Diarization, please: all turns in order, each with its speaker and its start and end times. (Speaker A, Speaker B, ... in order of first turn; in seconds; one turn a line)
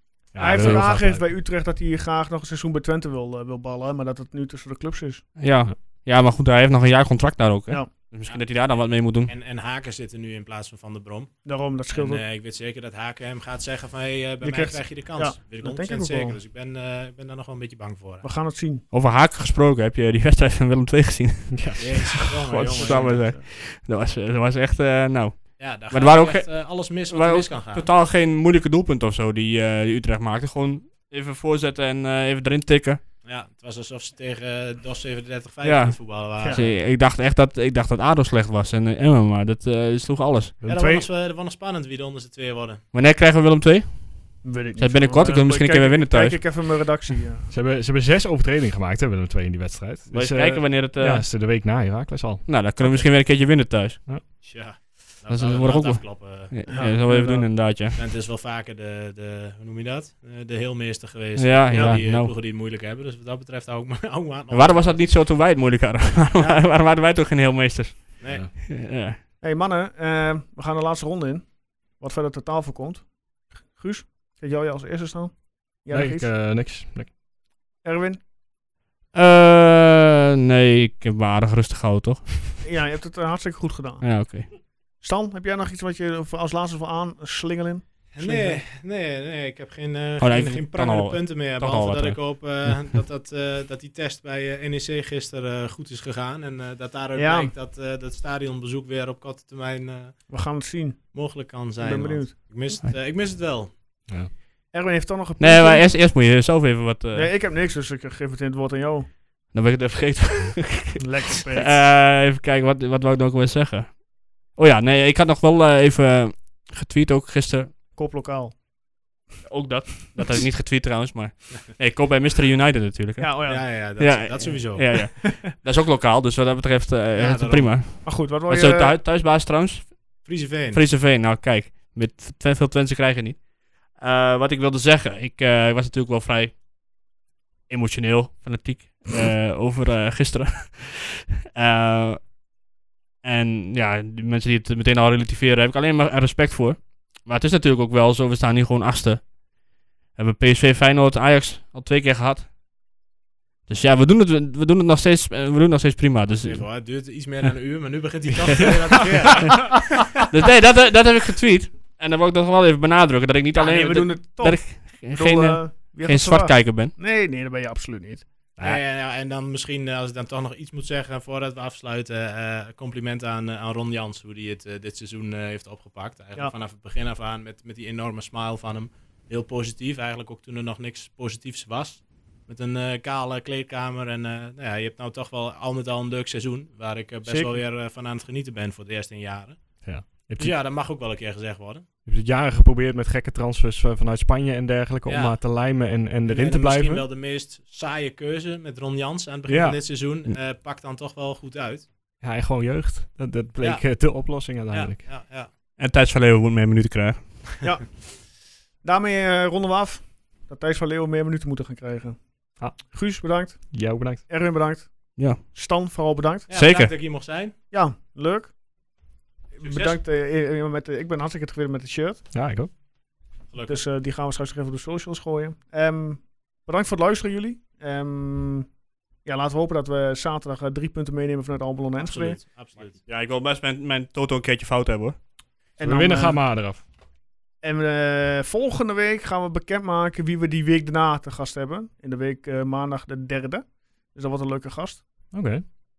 Speaker A: 0.3-1.3
Speaker B: 0.3-5.2
Speaker C: 5.4-9.3
Speaker D: 8.2-8.7
Speaker D: 9.2-18.3
Speaker B: 11.4-12.2
Speaker B: 14.4-16.4
Speaker B: 18.2-18.8
Speaker C: 18.9-33.0
Speaker A: 21.5-22.1
Speaker D: 21.8-23.4
Speaker D: 25.6-27.9
Speaker D: 33.2-36.8
Speaker C: 35.6-40.6
Speaker A: 40.6-41.1
Speaker D: 40.7-42.8
Speaker C: 42.9-46.9
Speaker B: 44.4-47.5
Speaker A: 47.5-52.5
Speaker C: 50.1-51.2
Speaker C: 52.5-54.0
Speaker D: 54.4-65.0
Speaker C: 55.3-58.0
Speaker B: 56.7-57.5
Speaker C: 61.4-62.3
Speaker B: 61.7-62.0
Speaker C: 64.5-69.2
Speaker D: 68.2-68.4
Speaker A: 68.2-68.5
Speaker B: 69.4-76.3
Speaker A: 75.9-77.1
Speaker B: 77.8-78.2
Speaker C: 79.1-82.5
Speaker B: 82.6-88.6
Speaker C: 84.0-84.5
Speaker D: 88.1-100.4
Speaker C: 90.2-92.8
Speaker B: 97.2-97.5
Speaker B: 100.3-102.7
Speaker D: 101.1-103.7
Speaker B: 104.7-105.9
Speaker C: 105.4-107.3
Speaker B: 107.1-109.1
Speaker C: 109.5-117.7
Speaker B: 111.0-111.7
Speaker B: 118.0-118.5
Speaker C: 119.5-136.6
Speaker B: 123.2-123.6
Speaker D: 123.5-125.1
Speaker D: 127.2-127.7
Speaker B: 128.0-129.0
Speaker D: 130.2-130.8
Speaker C: 137.7-142.3
Speaker C: 143.2-149.3
Speaker C: 150.1-152.5
Speaker C: 153.7-156.6
Speaker D: 156.4-160.1
Speaker C: 160.3-166.9
Speaker B: 163.5-168.3
Speaker A: 168.6-168.8
Speaker D: 168.6-191.8
Speaker B: 187.2-187.6
Speaker A: 189.8-190.6
Speaker A: 192.1-197.1
Speaker D: 195.1-195.4
Speaker D: 196.2-201.9
Speaker A: 199.5-199.8
Speaker A: 202.2-205.1
Speaker D: 203.6-205.5
Speaker C: 205.8-207.6
Speaker B: 207.6-208.3
Speaker B: 208.8-216.5
Speaker A: 213.4-214.2
Speaker C: 215.2-215.4
Speaker D: 216.5-217.5
Speaker C: 216.5-216.9
Speaker B: 217.7-218.5
Speaker B: 219.5-222.2
Speaker D: 219.6-220.0
Speaker A: 222.3-222.7
Speaker D: 223.5-223.8
Speaker B: 223.7-228.7
Speaker B: 229.2-232.4
Speaker D: 232.0-233.0
Speaker C: 233.0-235.2
Speaker B: 235.8-236.4
Speaker A: 235.8-236.8
Speaker B: 237.6-245.3
Speaker A: 245.3-245.7